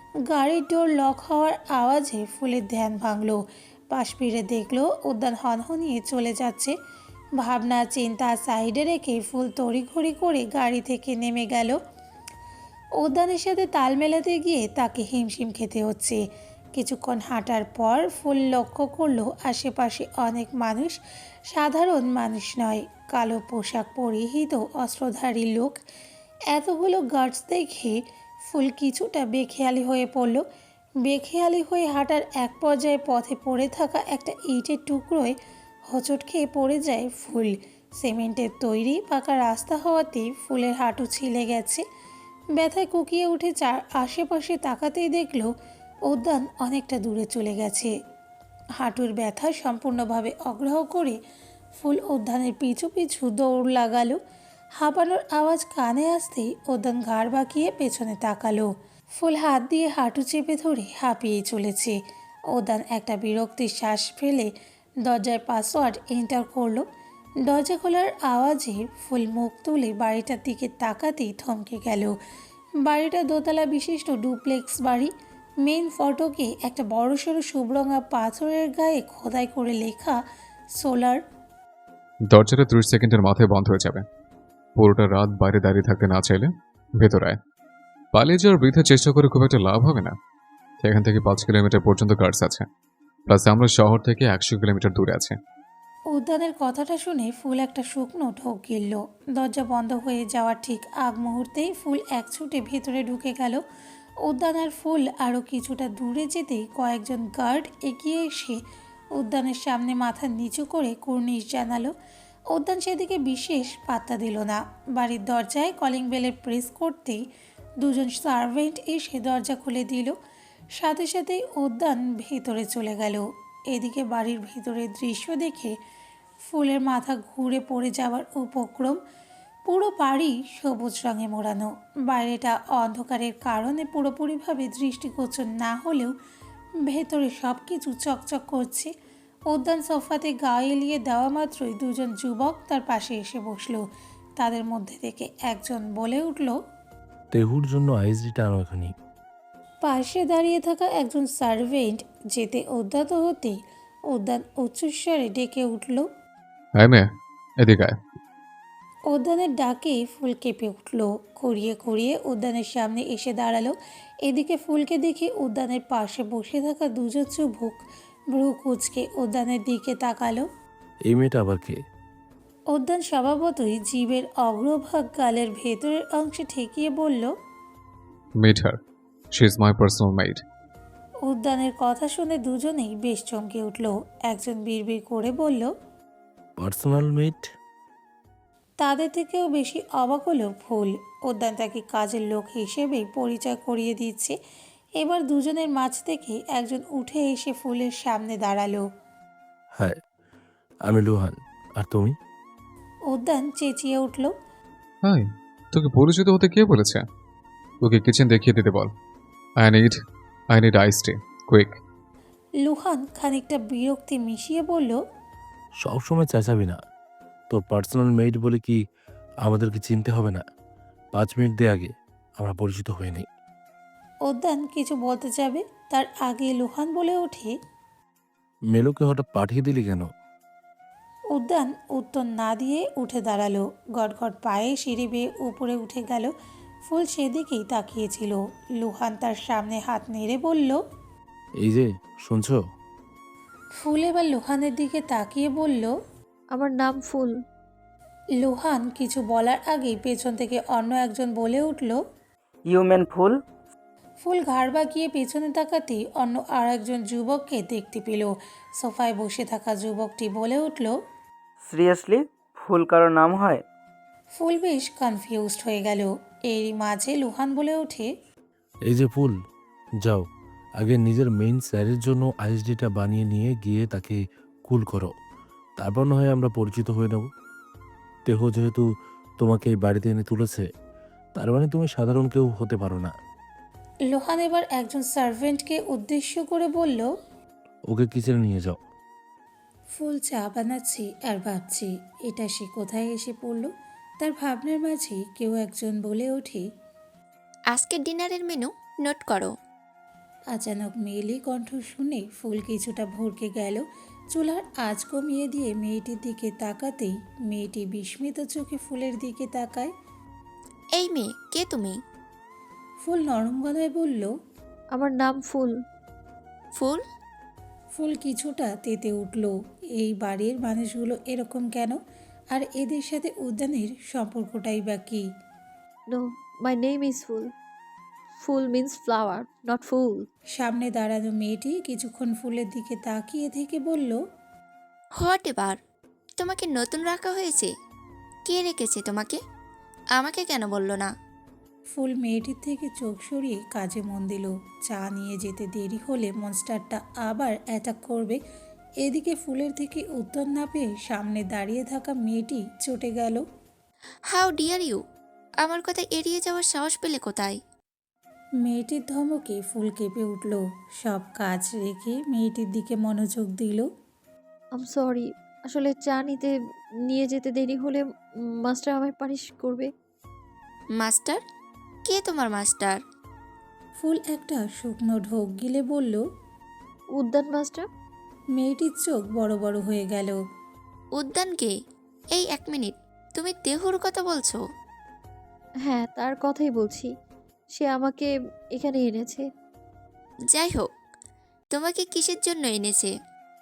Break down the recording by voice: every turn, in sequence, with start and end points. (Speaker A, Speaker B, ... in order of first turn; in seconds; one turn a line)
Speaker A: 0.3-6.7
Speaker A: 7.4-11.8
Speaker A: 13.0-16.2
Speaker A: 16.8-21.0
Speaker A: 21.5-25.8
Speaker A: 26.5-30.4
Speaker A: 31.0-35.4
Speaker A: 35.9-41.9
Speaker A: 42.5-45.5
Speaker A: 46.1-47.9
Speaker A: 48.8-51.2
Speaker A: 51.8-54.2
Speaker A: 54.8-62.0
Speaker A: 62.5-64.5
Speaker A: 65.0-66.9
Speaker A: 67.4-72.1
Speaker A: 72.8-75.1
Speaker A: 75.6-80.2
Speaker A: 80.8-81.2
Speaker B: 82.3-84.1
Speaker B: 84.8-87.4
Speaker B: 88.1-90.2
Speaker B: 90.8-92.7
Speaker B: 93.3-95.4
Speaker A: 96.1-103.6
Speaker A: 104.2-108.6
Speaker A: 109.2-111.9
Speaker A: 112.5-117.2
Speaker A: 117.8-120.2
Speaker A: 120.8-125.8
Speaker A: 126.5-129.0
Speaker A: 129.7-136.1
Speaker A: 136.9-138.9
Speaker A: 139.5-143.8
Speaker A: 144.4-146.6
Speaker C: 147.3-148.9
Speaker A: 149.8-153.6
Speaker A: 154.1-156.1
Speaker B: 156.8-157.1
Speaker B: 157.6-158.0
Speaker A: 159.1-167.8
Speaker A: 168.3-170.5
Speaker C: 171.1-171.8
Speaker A: 172.7-177.3
Speaker B: 178.4-178.8
Speaker B: 179.3-180.4
Speaker A: 181.3-185.7
Speaker C: 186.6-187.5
Speaker A: 188.8-194.4
Speaker A: 195.0-198.8
Speaker C: 200.8-202.2
Speaker A: 203.1-204.3
Speaker B: 205.0-207.1
Speaker B: 207.8-208.9
Speaker B: 209.6-210.0
Speaker B: 210.5-211.8
Speaker A: 212.6-215.0
Speaker C: 215.8-216.8
Speaker C: 217.5-218.8
Speaker C: 219.4-220.4
Speaker C: 221.1-223.3
Speaker A: 224.3-227.6
Speaker C: 228.7-230.1
Speaker A: 231.3-236.3
Speaker A: 236.9-240.8
Speaker C: 241.6-242.6
Speaker A: 243.8-245.9
Speaker D: 246.5-247.4
Speaker A: 248.4-252.0
Speaker E: 252.7-253.4
Speaker A: 254.2-261.0
Speaker E: 261.6-263.6
Speaker A: 264.4-268.1
Speaker C: 268.9-269.4
Speaker C: 270.0-270.3
Speaker C: 270.8-275.1
Speaker C: 275.8-277.3
Speaker C: 278.3-278.9
Speaker C: 279.4-280.7
Speaker C: 281.4-283.1
Speaker A: 284.1-287.1
Speaker C: 287.9-288.8
Speaker A: 290.0-296.7
Speaker F: 297.7-299.5
Speaker A: 300.5-309.9
Speaker F: 311.0-312.0
Speaker A: 313.0-314.3
Speaker D: 314.9-315.8
Speaker F: 316.7-317.0
Speaker A: 317.9-322.0
Speaker A: 322.5-325.3
Speaker D: 326.1-327.5
Speaker D: 328.4-330.3
Speaker A: 330.6-334.2
Speaker F: 335.2-335.8
Speaker F: 336.4-337.7
Speaker F: 338.5-339.4
Speaker F: 340.1-341.1
Speaker A: 341.9-348.4
Speaker A: 349.0-353.4
Speaker F: 354.3-355.0
Speaker F: 355.6-357.6
Speaker A: 358.6-363.9
Speaker D: 364.8-368.1
Speaker D: 368.6-369.9
Speaker F: 371.0-371.4
Speaker F: 372.1-373.0
Speaker A: 374.0-376.2
Speaker D: 377.2-377.9
Speaker A: 378.6-380.4
Speaker F: 381.2-381.7
Speaker F: 382.3-384.6
Speaker D: 385.9-387.1
Speaker D: 387.8-389.5
Speaker F: 390.5-390.9
Speaker F: 391.7-393.1